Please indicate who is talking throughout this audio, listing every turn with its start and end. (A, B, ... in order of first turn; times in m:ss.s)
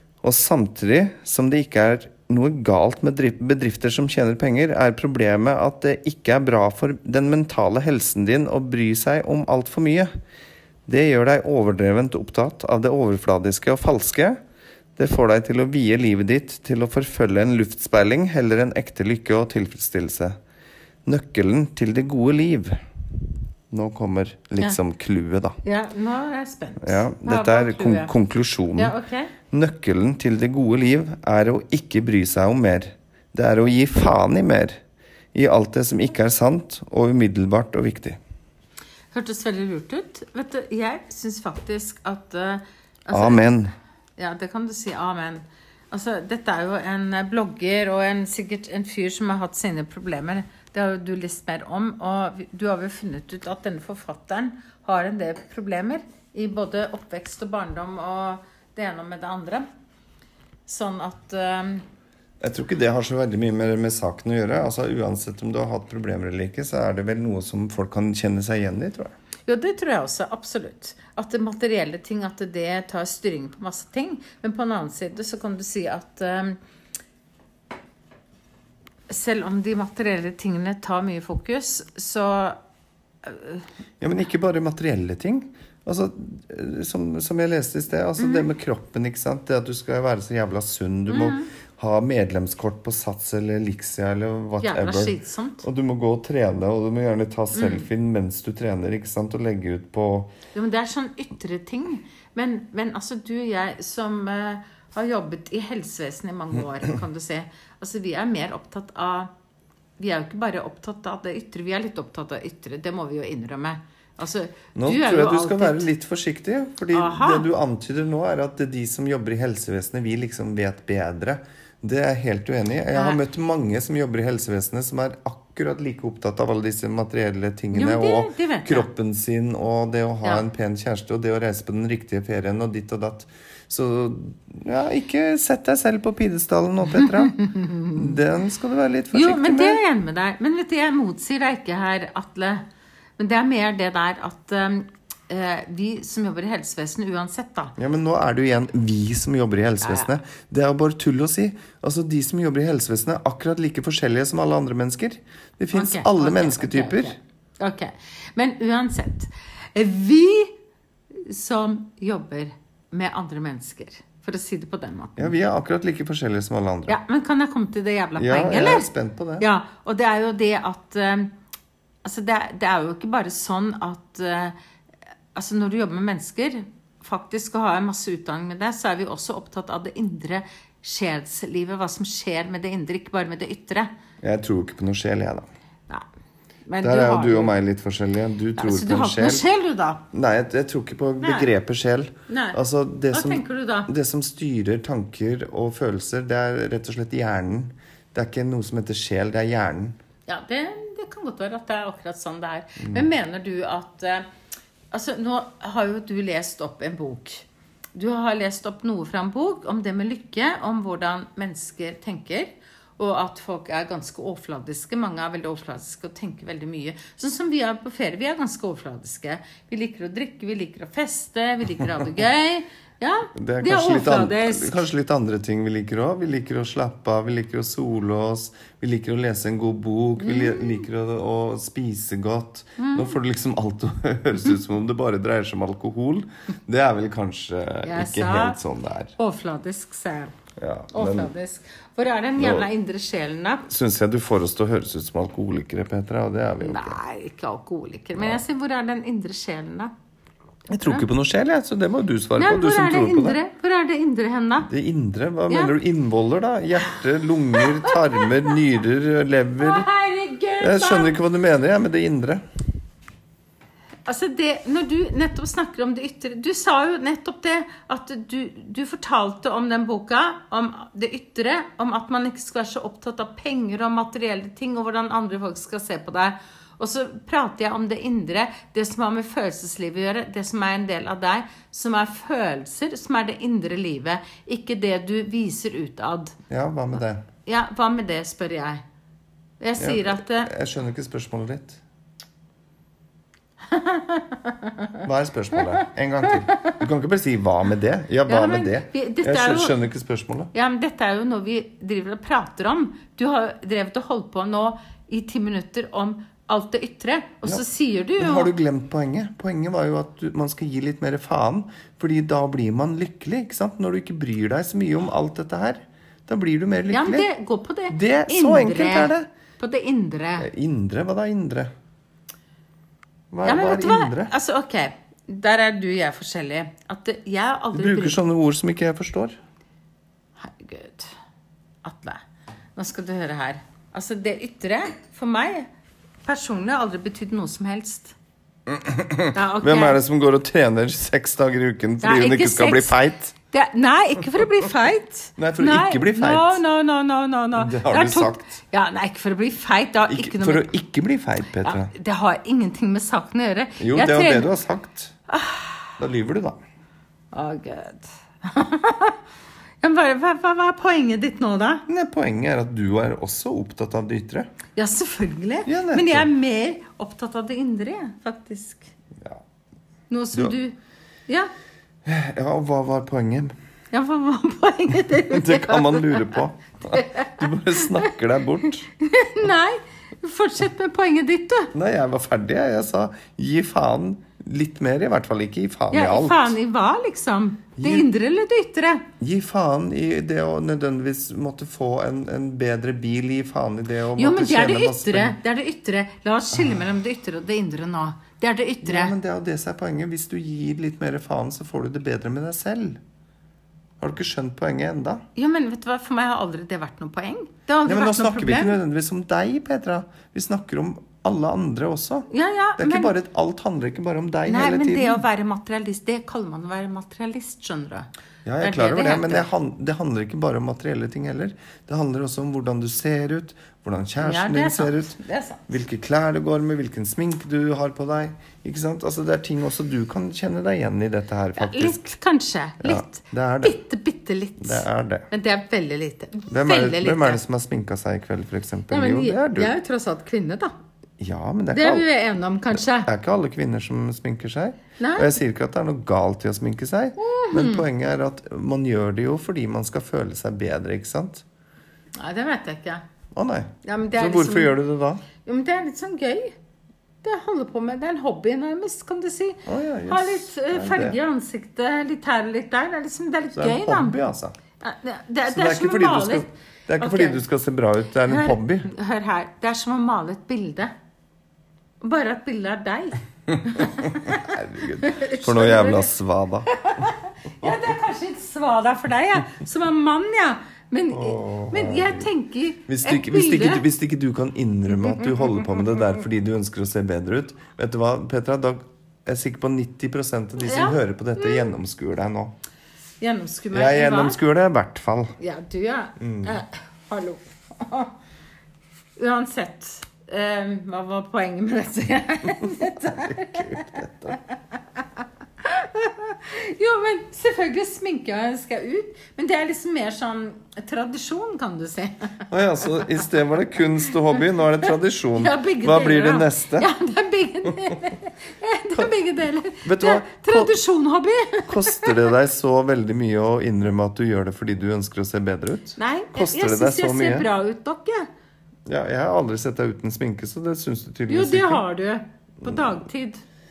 0:00.2-0:10.1 A
0:10.9-0:14.4 A
0:15.0-0:20.4 A
0:21.0-0:22.8 A
0:23.7-0:25.6 A
0:25.6-0:28.1 B
0:26.8-0:29.0 A
0:28.8-0:29.3 B
0:29.5-0:34.8 A
0:35.3-0:38.2 A
0:39.1-0:43.5 B
0:43.1-0:43.7 A
0:44.2-0:59.7 B
1:00.7-1:01.8 B
1:02.4-1:09.1 A
1:09.5-1:16.6 B
1:19.1-1:22.6 B
1:23.2-1:23.6 B
1:24.0-1:40.3 A
1:28.2-1:28.4 B
1:31.1-1:31.5 B
1:34.6-1:35.6 B
1:37.5-1:37.8 B
1:40.5-1:49.3 B
1:50.0-1:55.9 B
1:54.7-2:19.8 A
1:56.9-1:57.5 B
2:02.9-2:03.2 B
2:07.7-2:08.9 B
2:17.0-2:18.1 B
2:19.1-2:22.6 B
2:23.2-2:27.8 B
2:27.8-2:37.2 A
2:29.8-2:30.1 B
2:35.7-2:40.6 B
2:41.1-2:45.3 B
2:45.2-2:47.0 A
2:46.9-2:51.3 B
2:48.2-2:49.4 A
2:52.0-2:54.5 B
2:55.3-3:03.9 B
3:04.2-3:05.5 A
3:06.7-3:07.5 B
3:06.8-3:09.4 A
3:08.6-3:10.0 B
3:10.1-3:20.0 A
3:11.2-3:11.5 B
3:12.3-3:12.6 B
3:13.1-3:13.9 B
3:20.3-3:24.2 B
3:22.8-3:23.1 A
3:24.9-3:44.8 B
3:43.3-3:59.1 A
3:50.2-3:50.8 B
3:52.8-3:53.2 B
3:57.8-3:58.6 B
3:59.2-4:00.3 B
4:00.6-4:01.3 A
4:00.9-4:03.7 B
4:02.4-4:02.7 A
4:03.7-4:07.0 A
4:06.6-4:09.9 B
4:08.2-4:08.4 A
4:10.7-4:13.4 A
4:10.8-4:11.0 B
4:12.4-4:14.7 B
4:14.6-4:19.9 A
4:15.5-4:15.7 B
4:17.5-4:18.5 B
4:19.6-4:21.2 B
4:20.6-4:22.4 A
4:24.0-4:46.4 B
4:46.5-4:47.2 A
4:47.4-4:48.8 B
4:49.6-4:50.5 B
4:49.8-4:51.8 A
4:53.7-4:55.0 B
4:55.0-5:00.5 A
4:55.6-4:56.8 B
4:58.3-4:59.8 B
5:00.5-5:08.5 B
5:08.2-5:17.3 A
5:16.9-5:20.5 B
5:17.9-5:19.3 A
5:20.4-5:21.7 A
5:23.3-5:24.3 A
5:23.4-5:28.2 B
5:27.7-5:29.4 A
5:30.4-5:31.1 B
5:31.8-5:32.2 B
5:32.8-5:35.7 B
5:36.2-5:38.1 B
5:38.7-5:43.3 A
5:39.3-5:40.0 B
5:42.0-5:43.0 B
5:43.5-5:50.7 B
5:45.4-5:46.6 A
5:47.5-5:48.6 A
5:50.1-5:51.9 A
5:51.6-5:54.5 B
5:53.8-5:55.1 A
5:55.3-5:55.9 B
5:56.0-5:56.6 A
5:57.3-5:59.2 B
5:59.8-6:01.8 B
6:01.9-6:04.5 A
6:04.7-6:08.9 B
6:05.6-6:06.3 A
6:10.1-6:10.8 B
6:12.0-6:13.5 A
6:13.9-6:18.1 B
6:15.3-6:18.9 A
6:19.0-6:21.7 B
6:21.7-6:26.6 A
6:25.9-6:29.0 B
6:27.8-6:28.1 A
6:29.2-6:35.4 A
6:34.2-6:39.2 B
6:38.8-6:43.0 A
6:44.0-6:45.2 A
6:45.4-6:48.8 B
6:47.8-6:55.2 A
6:52.3-6:53.1 B
6:54.4-6:58.1 B
6:58.4-7:05.2 A
6:58.6-6:59.5 B
7:04.2-7:05.7 B
7:05.7-7:12.0 A
7:11.6-7:17.4 B
7:12.8-7:13.8 A
7:14.6-7:15.3 A
7:16.5-7:19.7 A
7:18.9-7:20.7 B
7:21.2-7:22.1 A
7:21.7-7:23.1 B
7:22.7-7:31.4 A
7:25.0-7:25.3 B
7:27.2-7:27.8 B
7:32.2-7:33.0 B
7:33.3-7:35.2 A
7:33.8-7:34.8 B
7:35.4-7:36.6 B
7:37.2-7:44.2 B
7:39.6-7:41.2 A
7:43.5-7:44.6 A
7:44.8-7:47.4 B
7:45.5-7:48.9 A
7:48.3-7:50.9 B
7:52.0-7:56.1 B
7:53.8-7:56.7 A
7:56.7-8:03.8 B
8:01.1-8:02.3 A
8:02.9-8:12.5 A
8:10.6-8:11.7 B
8:13.2-8:14.4 B
8:13.7-8:15.4 A
8:15.4-8:18.1 B
8:16.2-8:16.6 A
8:19.2-8:25.0 B
8:23.0-8:24.4 A
8:25.6-8:33.2 B
8:32.5-8:36.9 A
8:35.3-8:42.2 B
8:39.8-8:40.7 A
8:41.7-8:47.5 A
8:46.0-8:48.3 B
8:48.8-8:51.8 A
8:51.3-8:53.4 B
8:52.6-8:53.0 A